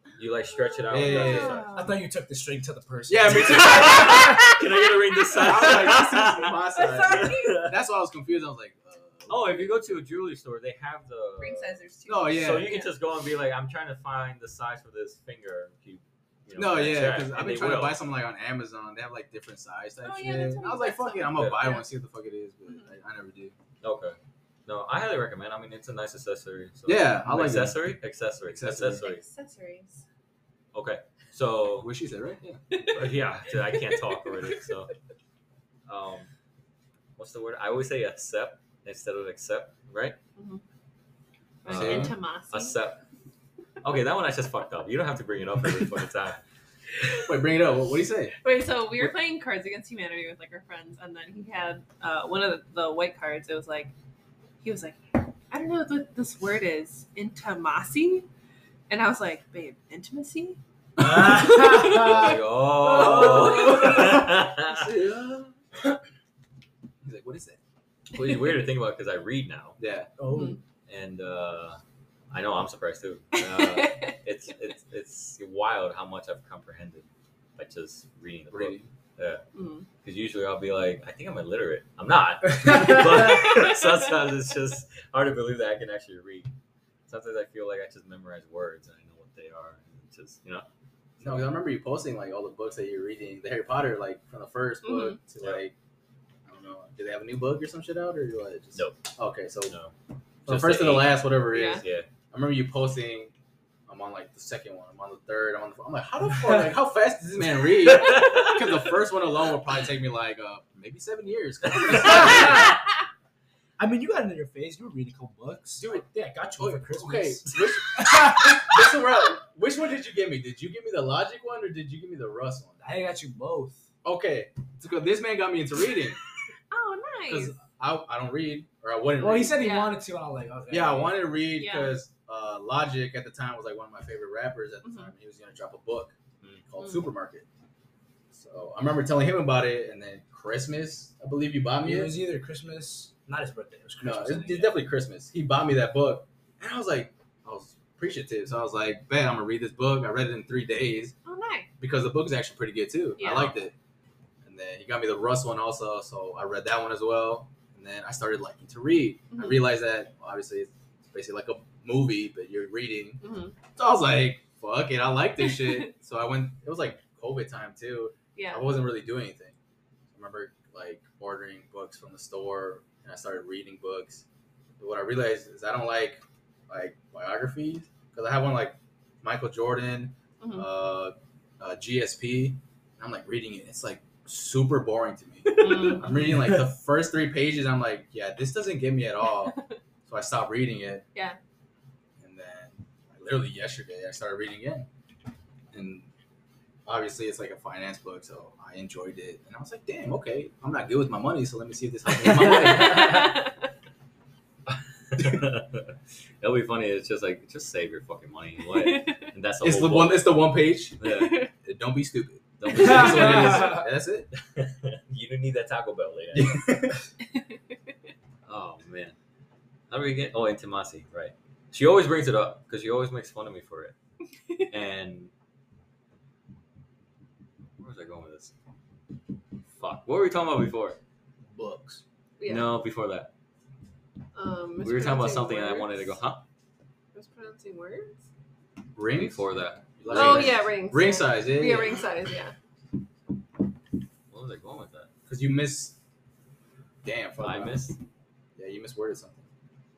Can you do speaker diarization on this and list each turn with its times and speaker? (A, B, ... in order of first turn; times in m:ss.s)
0:00.2-0:01.6 A
0:00.9-0:01.8 B
0:01.0-0:01.9 C
0:01.7-0:04.4 D
0:03.1-0:04.4 B
0:03.3-0:07.7 A
0:05.3-0:09.8 B
0:05.4-0:05.9 C
0:06.7-0:07.6 C
0:09.3-0:18.0 A
0:11.4-0:12.9 C
0:12.0-0:12.8 B
0:16.6-0:23.5 B
0:20.0-0:21.8 C
0:21.3-0:21.6 A
0:23.8-0:29.2 A
0:26.8-0:27.9 B
0:28.5-0:29.0 B
0:29.0-0:30.0 C
0:30.7-0:31.9 A
0:31.8-0:32.6 B
0:32.7-0:33.1 C
0:32.8-0:34.9 A
0:33.7-0:34.3 C
0:35.9-0:36.3 A
0:37.2-0:40.2 A
0:40.4-0:40.6 C
0:41.6-0:42.8 C
0:41.6-0:43.0 A
0:41.7-0:42.2 B
0:43.8-0:46.4 A
0:47.1-0:48.4 B
0:48.4-0:53.9 C
0:54.6-0:58.3 C
0:58.9-1:00.6 C
1:01.0-1:01.4 B
1:01.0-1:02.4 D
1:01.2-1:02.4 C
1:01.9-1:04.9 A
1:02.8-1:05.5 B
1:03.0-1:03.8 C
1:03.2-1:04.1 D
1:07.0-1:07.6 B
1:08.1-1:09.8 A
1:09.8-1:10.1 B
1:10.2-1:10.6 D
1:10.3-1:10.6 C
1:10.9-1:11.8 A
1:12.3-1:17.0 A
1:13.3-1:14.1 C
1:17.6-1:19.4 A
1:18.5-1:18.9 B
1:19.5-1:19.8 C
1:20.0-1:26.5 A
1:27.1-1:30.6 A
1:31.2-1:35.7 B
1:34.8-1:35.2 C
1:36.4-1:39.7 B
1:38.7-1:39.1 A
1:39.7-1:39.9 A
1:40.4-1:42.1 A
1:40.4-1:43.3 B
1:41.5-1:41.8 C
1:43.9-1:52.7 B
1:47.8-1:48.6 A
1:51.9-1:52.8 D
1:53.8-1:58.9 D
1:55.8-2:02.8 B
2:02.8-2:03.8 D
2:04.0-2:06.2 B
2:06.7-2:07.6 C
2:07.3-2:09.6 B
2:09.2-2:11.3 D
2:09.6-2:10.0 C
2:10.7-2:17.4 B
2:11.5-2:11.9 C
2:14.8-2:15.1 C
2:16.8-2:17.1 C
2:18.3-2:22.2 B
2:21.8-2:24.8 D
2:24.0-2:31.1 B
2:31.2-2:31.7 C
2:31.8-2:33.7 B
2:33.2-2:33.6 C
2:34.4-2:43.2 B
2:39.3-2:39.7 C
2:43.2-2:43.5 C
2:43.7-2:49.6 B
2:48.3-2:48.7 C
2:50.1-2:54.2 B
2:54.8-3:11.0 B
3:00.4-3:00.7 C
3:05.4-3:06.2 C
3:12.2-3:14.9 B
3:15.7-3:16.1 B
3:16.8-3:23.4 B
3:22.2-3:23.5 C
3:24.7-3:30.4 A
3:28.7-3:29.3 C
3:29.6-3:31.0 B
3:31.0-3:31.4 A
3:31.0-3:31.5 C
3:31.6-3:34.3 B
3:32.6-3:36.8 A
3:36.3-3:37.0 B
3:38.4-3:39.1 A
3:39.9-3:44.0 A
3:44.7-3:45.3 A
3:47.8-3:48.5 A
3:49.8-3:51.0 A
3:51.5-3:52.0 D
3:52.4-3:52.7 C
3:52.4-3:53.3 A
3:54.3-3:56.0 C
3:54.8-3:56.4 A
3:57.1-3:58.2 C
3:59.0-3:59.4 B
3:59.2-4:00.6 A
4:00.0-4:02.0 B
4:00.1-4:02.5 C
4:04.3-4:05.1 A
4:05.3-4:06.0 B
4:07.0-4:07.8 B
4:07.4-4:08.0 A
4:08.6-4:09.4 B